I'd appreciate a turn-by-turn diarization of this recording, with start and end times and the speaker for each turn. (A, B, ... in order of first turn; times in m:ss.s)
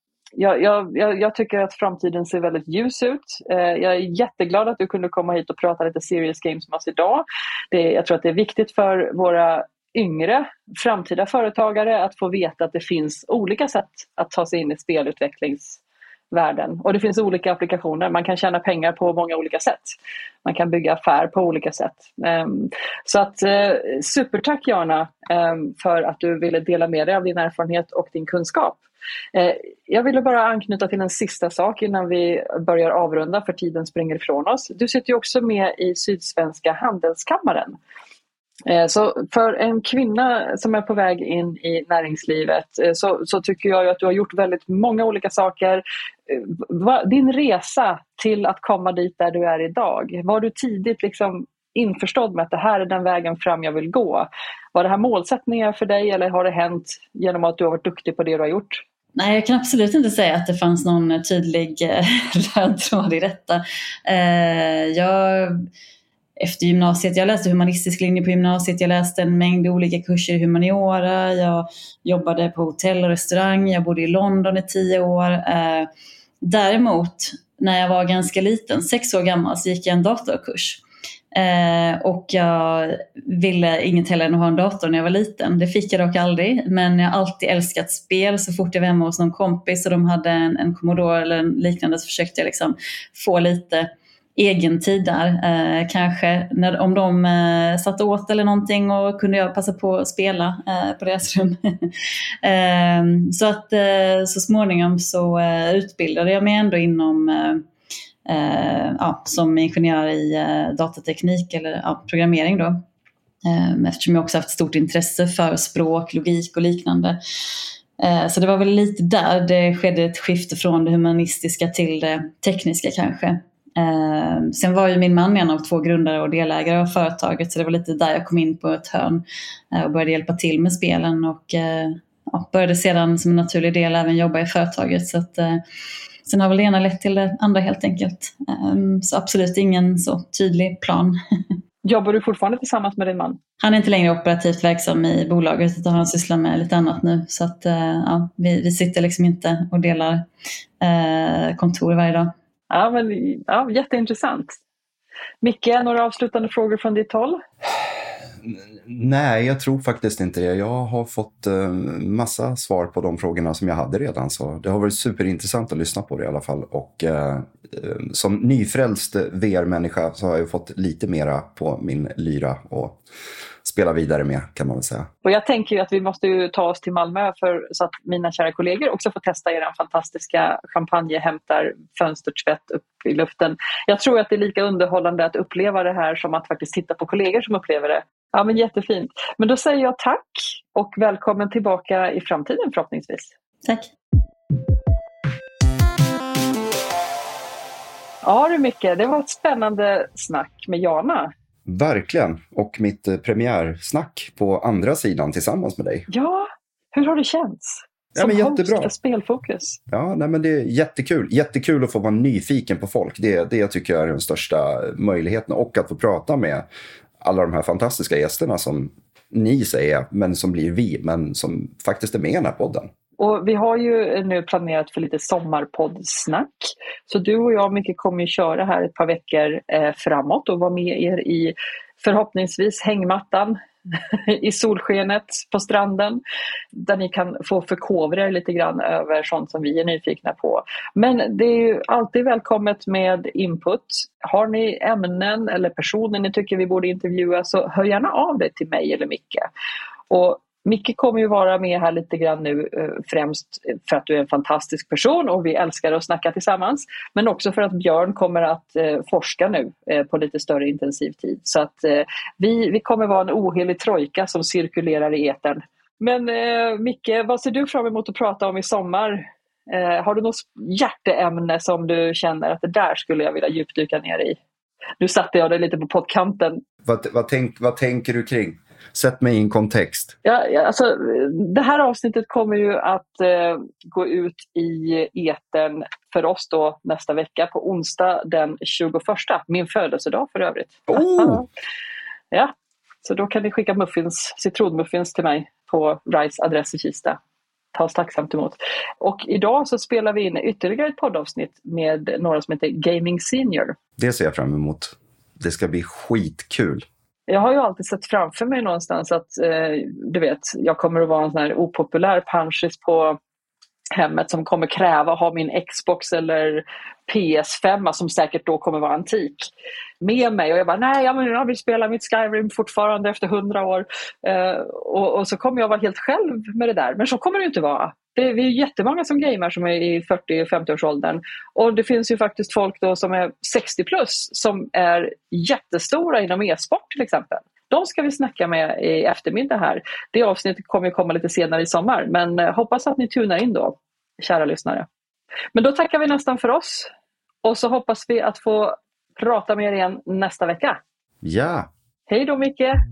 0:00.4-0:15.8 A
0:16.3-0:28.8 A
0:29.3-0:37.8 A
0:38.7-0:58.8 A
0:59.2-1:05.6 B
1:06.4-1:15.9 B
1:16.4-1:20.8 B
1:21.3-1:41.9 B
1:42.4-1:47.6 B
1:48.3-1:52.8 B
1:53.4-1:57.2 B
1:58.0-2:15.6 B
2:16.3-2:21.2 B
2:21.8-2:23.4 A
2:23.6-2:30.3 B
2:30.8-2:32.3 B
2:32.7-2:34.6 A
2:35.4-2:37.4 A
2:37.7-2:53.0 C
2:53.6-2:55.1 C
2:55.2-3:13.3 A
3:13.6-3:13.9 B
3:18.2-3:21.3 A
3:21.7-3:26.1 C
3:26.1-3:29.8 A
3:28.2-3:28.9 C
3:29.9-3:36.7 C
3:37.2-3:42.9 C
3:43.2-3:53.6 A
3:54.1-3:56.2 A
3:56.7-4:09.5 A
4:10.1-4:34.4 A
4:35.0-4:36.6 A
4:36.8-4:40.2 C
4:40.2-4:51.5 A
4:50.9-4:51.4 C
4:53.0-4:57.2 A
4:57.7-5:03.8 A
5:04.0-5:06.9 C
5:07.3-5:13.2 A
5:13.9-5:44.9 A
5:45.5-5:46.9 A
5:47.4-5:50.8 A
5:51.2-5:51.7 C
5:52.1-5:52.8 A